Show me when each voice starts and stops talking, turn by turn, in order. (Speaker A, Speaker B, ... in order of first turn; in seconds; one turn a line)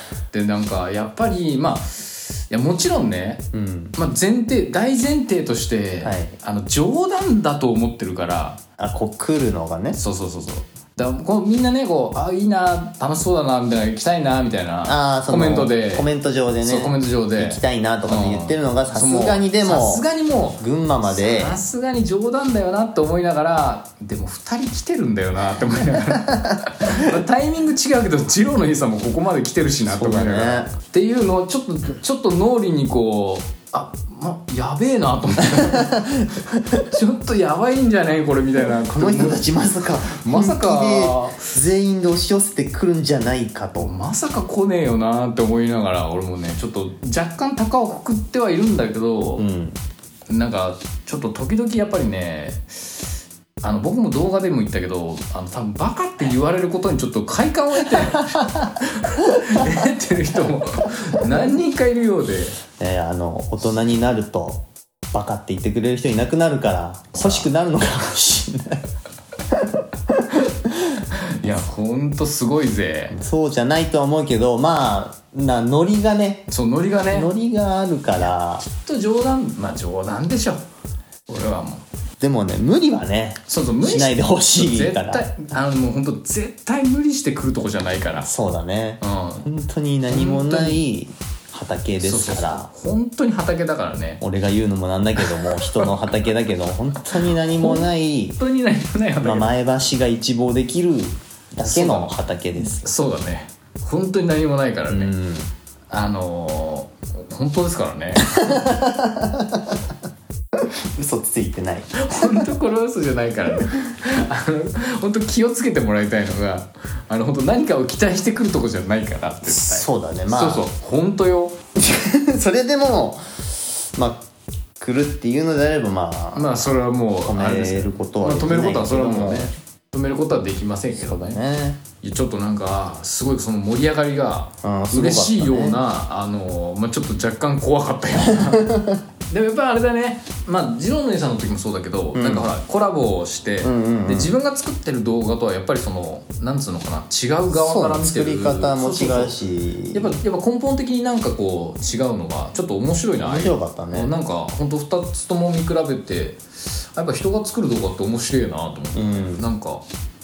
Speaker A: 0.3-8.6
Speaker B: 3.5-4.0
Speaker B: 6.0-6.3
Speaker B: 8.8-10.0
Speaker A: 9.9-16.1
Speaker B: 14.8-20.0
Speaker A: 16.6-36.1
Speaker B: 20.6-21.6
Speaker B: 29.9-30.7
Speaker B: 35.6-36.8
Speaker A: 36.7-39.5
Speaker B: 38.8-43.9
Speaker A: 40.1-41.5
Speaker A: 43.8-49.5
Speaker B: 49.4-49.8
Speaker A: 50.3-53.0
Speaker A: 53.6-62.6
Speaker B: 62.8-68.8
Speaker A: 67.1-67.5
Speaker B: 69.5-71.0
Speaker A: 71.1-73.2
Speaker B: 73.1-76.5
Speaker A: 76.5-77.3
Speaker B: 77.1-78.6
Speaker A: 78.6-80.6
Speaker A: 81.3-81.8
Speaker B: 82.2-85.2
Speaker A: 83.5-88.3
Speaker B: 88.2-92.7
Speaker A: 89.0-89.5
Speaker A: 90.1-90.8
Speaker A: 92.0-94.2
Speaker B: 94.2-98.4
Speaker A: 95.2-95.9
Speaker A: 97.3-99.5
Speaker B: 99.2-102.9
Speaker A: 101.6-105.1
Speaker B: 104.9-105.5
Speaker A: 105.9-108.5
Speaker B: 108.2-109.8
Speaker B: 110.5-112.4
Speaker A: 111.9-121.6
Speaker B: 119.4-120.7
Speaker B: 121.8-124.2
Speaker B: 124.8-126.6
Speaker A: 126.3-131.4
Speaker B: 127.2-129.5
Speaker B: 130.9-131.8
Speaker A: 132.0-149.4
Speaker B: 134.6-135.8
Speaker B: 138.3-139.0
Speaker B: 142.1-142.5
Speaker B: 143.6-144.3
Speaker B: 147.5-150.1
Speaker A: 149.9-159.8
Speaker B: 153.2-154.1
Speaker B: 158.9-159.4